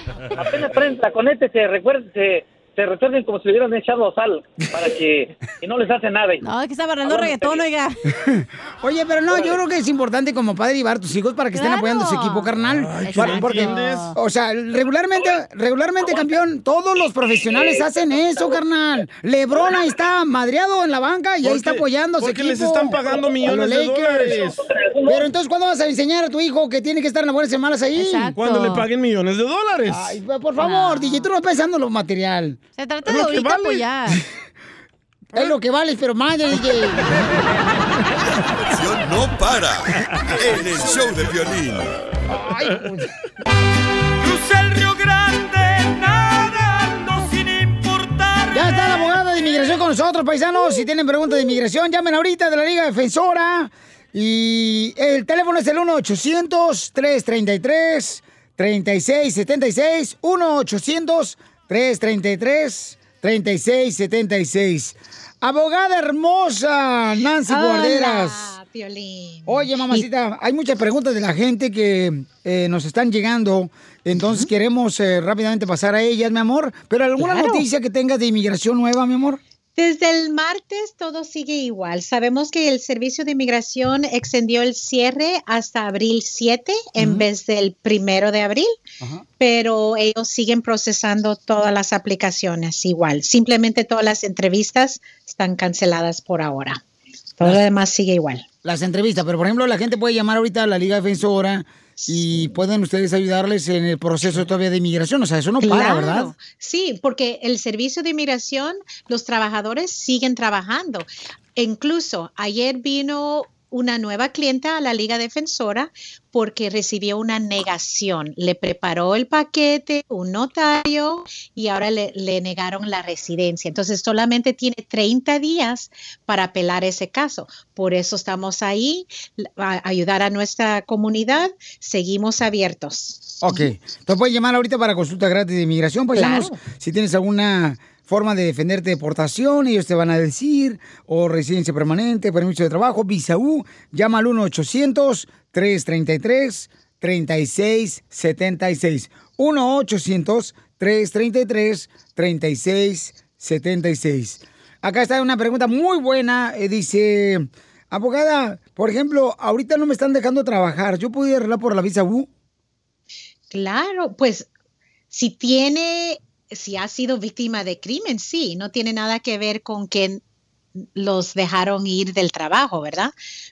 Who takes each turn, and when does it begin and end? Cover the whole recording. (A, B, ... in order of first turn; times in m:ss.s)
0:00.4-0:06.5 A
0:06.4-0:08.0 B
0:07.0-0:07.6 A
0:08.2-0:24.4 C
0:09.3-0:09.6 A
0:11.5-0:12.5 B
0:12.6-0:14.1 D
0:13.0-0:14.1 B
0:17.5-0:18.6 A
0:21.4-0:24.6 D
0:24.6-0:25.3 A
0:25.1-0:28.3 C
0:28.0-0:28.8 B
0:28.4-0:30.2 D
0:29.9-0:32.6 C
0:30.6-0:31.3 B
0:32.8-0:34.2 B
0:33.1-0:33.8 D
0:35.4-0:37.2 C
0:38.8-0:41.9 E
0:42.3-0:43.1 C
0:44.2-0:49.0 F
0:48.5-1:08.6 C
1:07.5-1:10.0 G
1:09.5-1:19.4 C
1:14.2-1:14.5 G
1:17.3-1:17.6 G
1:19.8-1:28.7 G
1:27.0-1:27.2 C
1:29.4-1:36.8 G
1:37.4-1:38.4 G
1:38.6-1:46.3 C
1:42.0-1:42.5 G
1:45.6-2:13.6 G
2:13.4-2:42.3 C
2:16.2-2:16.6 G
2:43.5-2:44.5 G
2:45.1-2:50.2 G
2:51.0-2:53.1 G